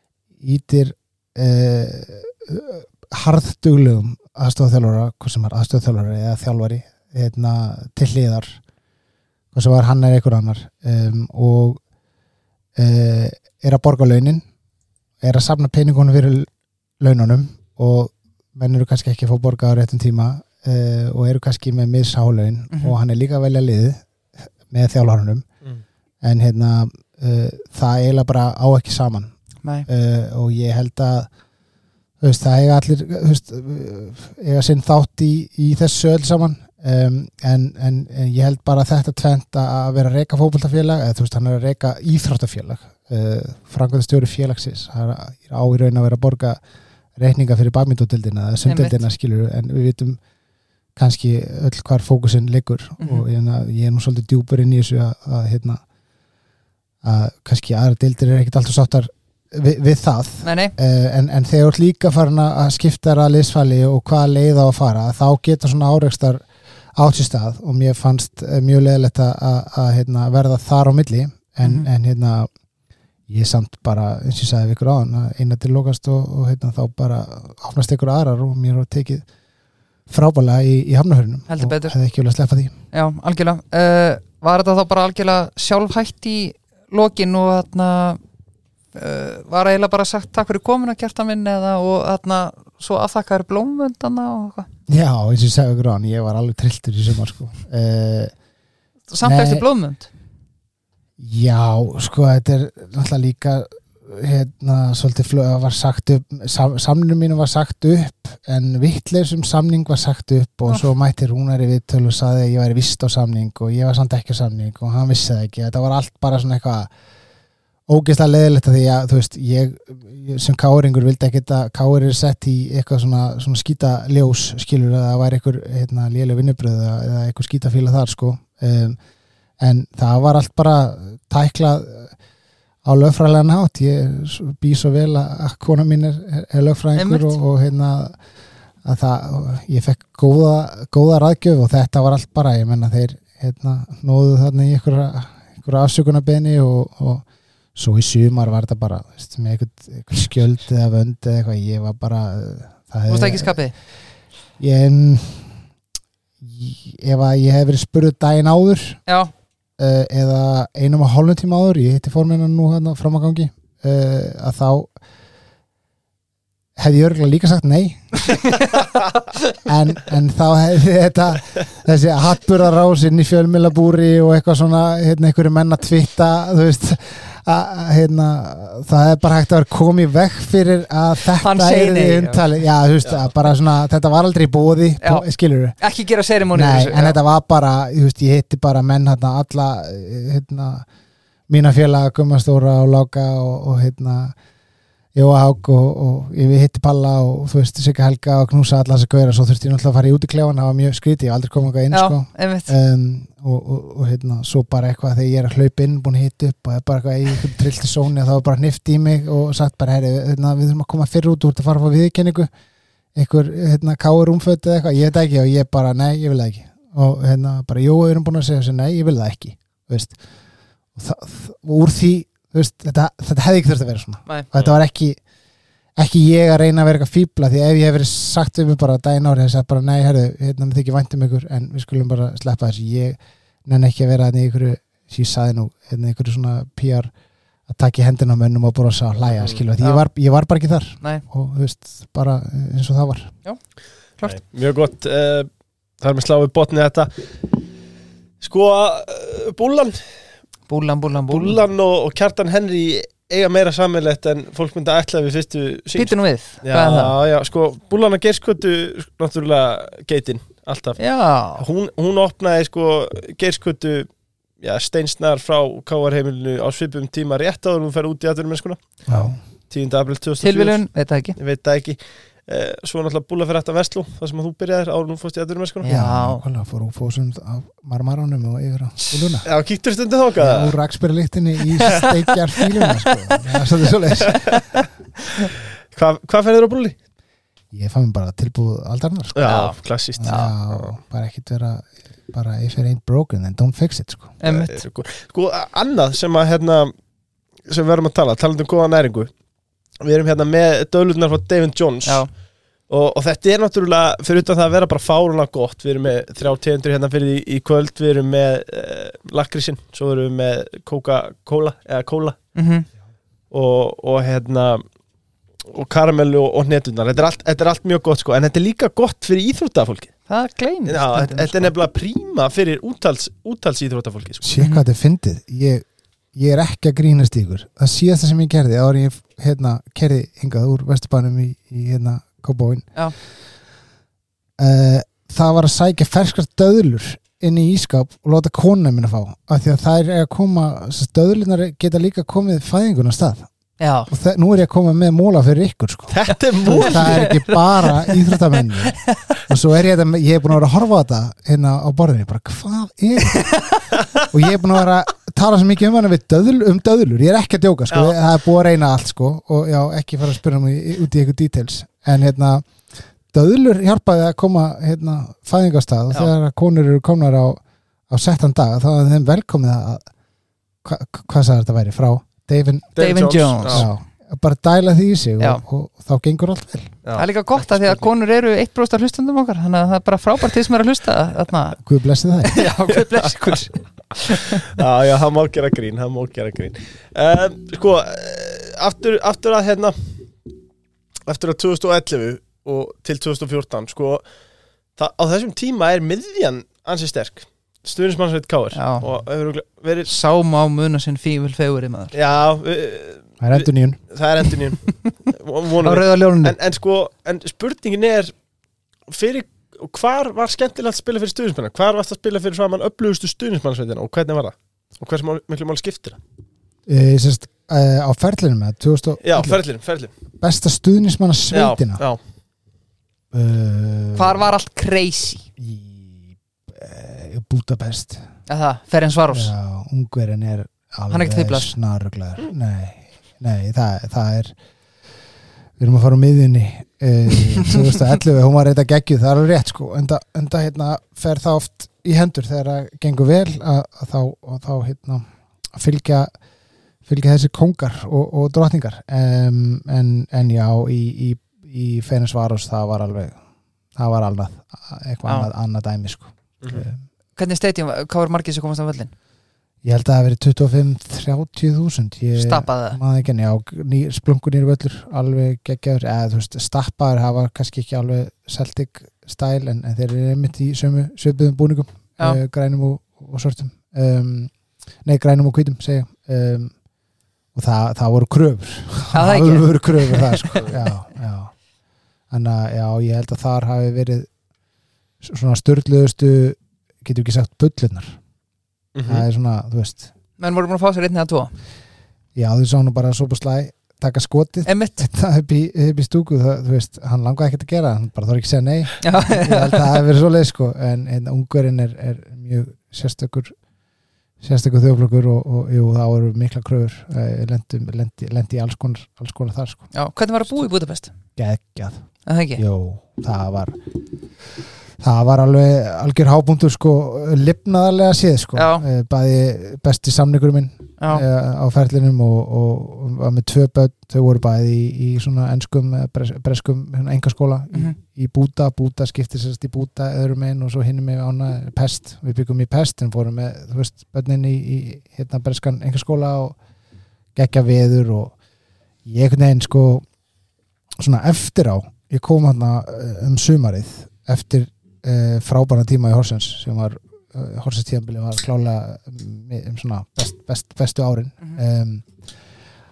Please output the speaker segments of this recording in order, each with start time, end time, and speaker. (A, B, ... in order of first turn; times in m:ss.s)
0:00.4-0:08.6 A
0:09.5-0:11.8 A
0:12.8-0:14.4 A
0:15.2-0:16.5 A
0:17.0-0:24.0 A
0:22.7-0:23.0 B
0:24.7-0:25.4 A
0:26.2-0:29.3 A
0:29.6-0:29.9 B
0:29.9-0:31.3 A
0:32.2-0:46.6 A
0:47.2-0:50.2 A
0:48.6-0:49.0 B
0:51.0-0:55.8 A
0:53.0-0:53.2 B
0:57.0-1:12.5 A
1:00.4-1:00.8 B
1:11.6-1:11.9 B
1:13.3-1:19.3 A
1:20.1-1:22.8 A
1:21.5-1:22.0 B
1:22.9-1:28.2 B
1:28.9-1:34.7 B
1:34.9-1:38.3 A
1:39.1-1:40.1 B
1:39.2-1:39.6 A
1:41.2-1:56.9 A
1:57.9-2:09.0 A
2:09.6-2:12.1 A
2:12.8-2:18.2 A
2:17.0-2:17.4 B
2:18.8-2:27.2 A
2:27.8-2:33.6 A
2:33.1-2:33.7 B
2:34.6-2:35.6 A
2:36.4-2:39.0 A
2:39.1-2:39.3 B
2:39.8-2:44.9 A
2:46.8-2:48.1 A
2:48.3-2:48.7 B
2:49.6-3:05.8 A
3:01.4-3:02.5 B
3:05.8-3:07.2 B
3:06.5-3:10.9 A
3:11.5-3:14.4 A
3:15.2-3:32.5 A
3:21.9-3:22.7 B
3:33.2-3:40.2 A
3:41.0-3:45.2 A
3:46.0-3:57.1 A
3:57.7-4:03.3 A
3:59.3-3:59.6 C
3:59.8-4:00.0 B
4:04.2-4:05.5 C
4:06.0-4:07.3 C
4:08.4-4:10.0 C
4:10.7-4:11.6 B
4:11.3-4:21.0 C
4:16.0-4:17.1 B
4:21.0-4:21.6 B
4:21.6-4:24.1 C
4:24.6-4:28.8 C
4:29.1-4:29.4 A
4:29.7-4:30.8 C
4:30.4-4:31.4 B
4:31.4-4:35.9 C
4:35.8-4:36.4 B
4:35.9-4:39.5 A
4:39.4-4:40.8 C
4:40.4-4:44.5 A
4:42.8-4:43.1 B
4:44.2-4:44.8 C
4:45.9-4:47.0 C
4:47.7-4:49.5 A
4:49.4-4:50.9 C
4:49.4-4:50.5 B
4:50.2-4:54.4 A
4:54.4-4:54.8 B
4:54.4-4:56.9 C
4:57.7-4:59.3 C
5:00.0-5:02.2 C
5:02.9-5:12.4 C
5:12.6-5:12.9 B
5:13.5-5:14.8 C
5:15.7-5:20.1 C
5:20.3-5:21.7 B
5:20.9-5:24.5 C
5:24.4-5:33.0 A
5:24.6-5:24.8 B
5:34.6-5:43.5 A
5:43.8-5:44.1 B
5:44.1-5:46.2 A
5:46.1-5:47.4 C
5:46.7-5:49.2 B
5:46.8-6:02.7 A
5:53.2-5:53.9 B
5:57.9-5:58.2 C
6:03.3-6:10.1 A
6:10.8-6:12.9 A
6:12.9-6:13.9 C
6:13.0-6:13.9 B
6:13.6-6:17.0 A
6:17.0-6:18.0 C
6:17.1-6:21.8 B
6:21.8-6:22.7 A
6:22.4-6:24.6 B
6:23.1-6:23.6 C
6:24.6-6:30.2 C
6:31.3-6:34.3 C
6:35.0-6:40.1 C
6:38.7-6:39.0 B
6:40.1-6:42.2 B
6:42.1-6:48.3 C
6:43.4-6:44.0 A
6:45.8-6:46.6 B
6:49.1-6:56.2 C
6:56.9-6:59.6 A
6:59.2-7:00.1 C
7:00.4-7:02.0 A
7:01.5-7:02.2 C
7:03.3-7:04.5 A
7:04.2-7:05.4 B
7:05.6-7:08.3 A
7:08.5-7:09.5 B
7:09.3-7:14.6 A
7:11.1-7:11.7 B
7:15.8-7:26.3 A
7:27.0-7:33.4 A
7:34.0-7:37.0 A
7:37.4-7:39.1 B
7:39.8-7:54.5 A
7:42.4-7:43.0 B
7:55.0-7:56.8 A
7:57.5-8:01.5 A
7:59.1-8:00.7 B
8:02.3-8:04.3 A
8:05.2-8:08.2 A
8:09.0-8:09.3 C
8:09.1-8:10.1 A
8:10.4-8:11.5 B
8:12.4-8:23.5 A
8:14.7-8:15.1 B
8:19.0-8:19.9 B
8:24.4-8:29.9 A
8:29.9-8:31.1 B
8:31.4-8:33.8 A
8:32.3-8:32.6 B
8:35.0-8:56.6 A
8:38.6-8:38.8 B
8:41.0-8:41.2 B
8:57.4-8:58.3 A
8:59.0-9:00.0 A
9:01.0-9:12.1 A